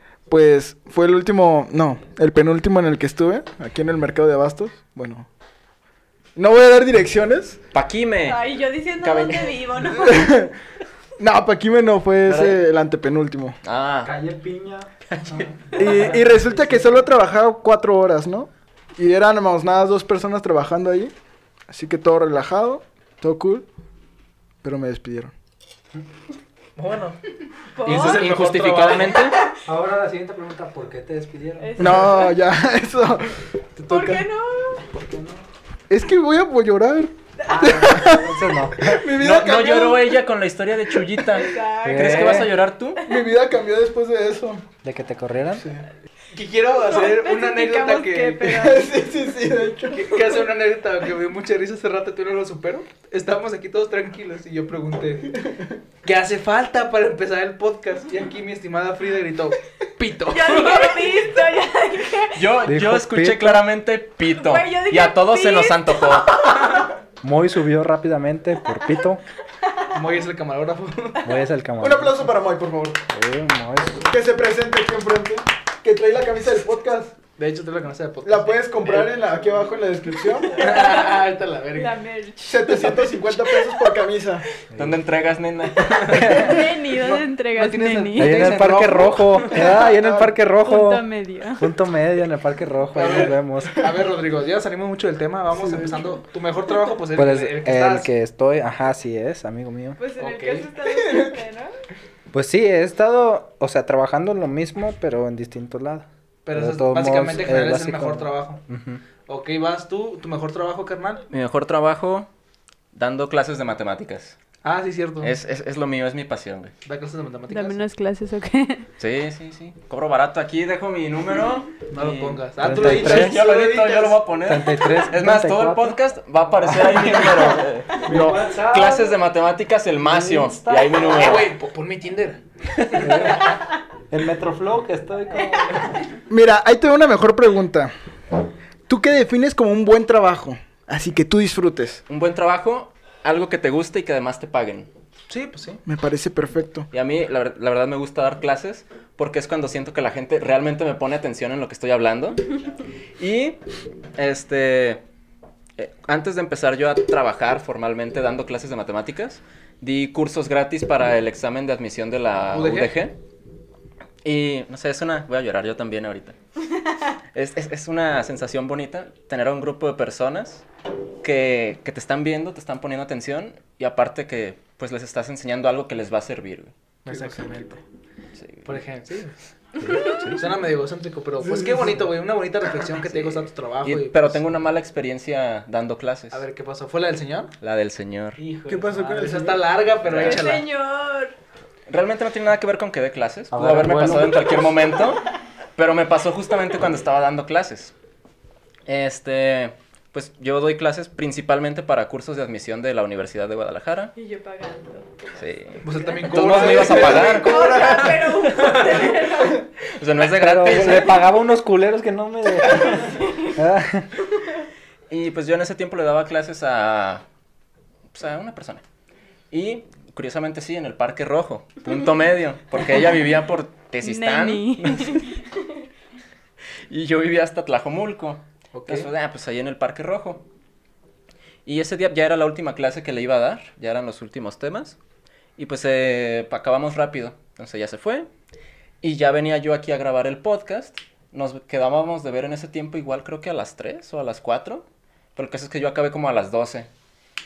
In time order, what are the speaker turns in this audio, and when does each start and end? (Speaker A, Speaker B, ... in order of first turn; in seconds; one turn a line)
Speaker A: 0.3-5.3
Speaker A: 6.3-7.6
Speaker B: 7.7-8.4
Speaker C: 8.2-10.5
Speaker B: 9.0-9.6
Speaker A: 10.0-10.5
Speaker A: 11.2-13.6
Speaker B: 12.2-12.6
Speaker B: 13.6-14.2
Speaker D: 14.0-16.9
Speaker A: 15.7-21.1
Speaker A: 21.7-23.6
Speaker A: 24.6-25.3
Speaker E: 26.8-27.2
Speaker C: 27.7-28.3
Speaker E: 27.8-29.3
Speaker B: 27.8-29.5
Speaker D: 29.6-32.1
Speaker C: 31.6-32.4
Speaker A: 31.8-34.2
Speaker C: 33.9-34.9
Speaker D: 34.9-35.4
Speaker A: 35.9-40.1
Speaker C: 37.4-37.9
Speaker D: 37.5-39.0
Speaker B: 39.1-43.0
Speaker C: 41.3-42.5
Speaker D: 41.8-42.5
Speaker A: 43.0-44.7
Speaker D: 44.8-45.6
Speaker A: 45.6-45.9
Speaker E: 46.3-48.6
Speaker C: 46.8-48.9
Speaker A: 48.5-50.3
Speaker E: 49.9-55.3
Speaker E: 56.0-61.2
Speaker C: 60.3-62.4
Speaker B: 62.3-66.6
Speaker D: 62.6-63.6
Speaker C: 64.3-66.9
Speaker D: 67.2-69.2
Speaker E: 69.9-71.3
Speaker D: 71.2-72.3
Speaker A: 71.8-73.0
Speaker D: 73.1-74.1
Speaker A: 74.0-77.2
Speaker E: 77.4-79.2
Speaker A: 78.2-80.7
Speaker C: 80.4-84.0
Speaker E: 80.5-82.0
Speaker A: 82.5-84.5
Speaker B: 84.7-86.5
Speaker E: 85.9-89.6
Speaker D: 86.1-86.7
Speaker C: 86.2-88.7
Speaker D: 88.2-91.0
Speaker A: 89.5-90.3
Speaker C: 90.6-91.7
Speaker D: 91.6-93.9
Speaker E: 92.9-98.1
Speaker D: 97.1-100.0
Speaker C: 100.0-101.7
Speaker E: 100.2-100.7
Speaker A: 100.9-101.3
Speaker D: 102.3-109.0
Speaker E: 106.5-108.6
Speaker E: 109.3-111.2
Speaker B: 111.3-112.3
Speaker B: 112.9-114.3
Speaker E: 114.6-115.3
Speaker B: 115.2-116.7
Speaker E: 116.8-117.8
Speaker C: 117.5-118.8
Speaker B: 119.0-131.5
Speaker E: 121.9-124.2
Speaker D: 122.6-123.4
Speaker D: 124.5-126.0
Speaker D: 126.7-129.2
Speaker D: 130.0-131.4
Speaker E: 130.9-132.4
Speaker B: 132.7-133.4
Speaker E: 132.9-133.4
Speaker D: 133.0-133.5
Speaker D: 134.1-135.9
Speaker A: 136.3-137.9
Speaker A: 138.9-142.0
Speaker B: 142.1-144.9
Speaker E: 145.3-145.8
Speaker A: 145.8-146.9
Speaker B: 146.9-153.6
Speaker B: 154.1-155.0
Speaker B: 155.8-163.2
Speaker E: 162.5-162.9
Speaker B: 164.2-166.4
Speaker B: 167.3-170.6
Speaker B: 171.2-176.7
Speaker E: 177.1-177.8
Speaker A: 177.1-177.7
Speaker B: 178.3-178.7
Speaker E: 178.7-179.3
Speaker D: 179.8-180.4
Speaker C: 179.8-180.2
Speaker B: 179.8-180.4
Speaker E: 180.3-184.4
Speaker A: 181.4-182.1
Speaker B: 183.0-186.4
Speaker E: 186.3-187.5
Speaker B: 187.6-188.4
Speaker E: 188.4-190.7
Speaker A: 188.7-189.7
Speaker B: 190.0-190.6
Speaker C: 190.2-191.3
Speaker B: 191.9-197.9
Speaker D: 193.5-194.5
Speaker B: 198.8-204.1
Speaker C: 204.2-209.7
Speaker B: 205.4-207.9
Speaker E: 205.8-208.9
Speaker A: 206.5-208.3
Speaker B: 208.4-209.2
Speaker B: 209.8-211.3
Speaker D: 210.3-214.1
Speaker C: 212.7-213.5
Speaker B: 215.1-217.2
Speaker B: 218.1-218.8
Speaker B: 219.5-225.3
Speaker C: 224.0-225.5
Speaker B: 226.9-230.4
Speaker E: 228.7-229.1
Speaker B: 231.6-235.0
Speaker B: 235.6-238.3
Speaker B: 239.0-246.9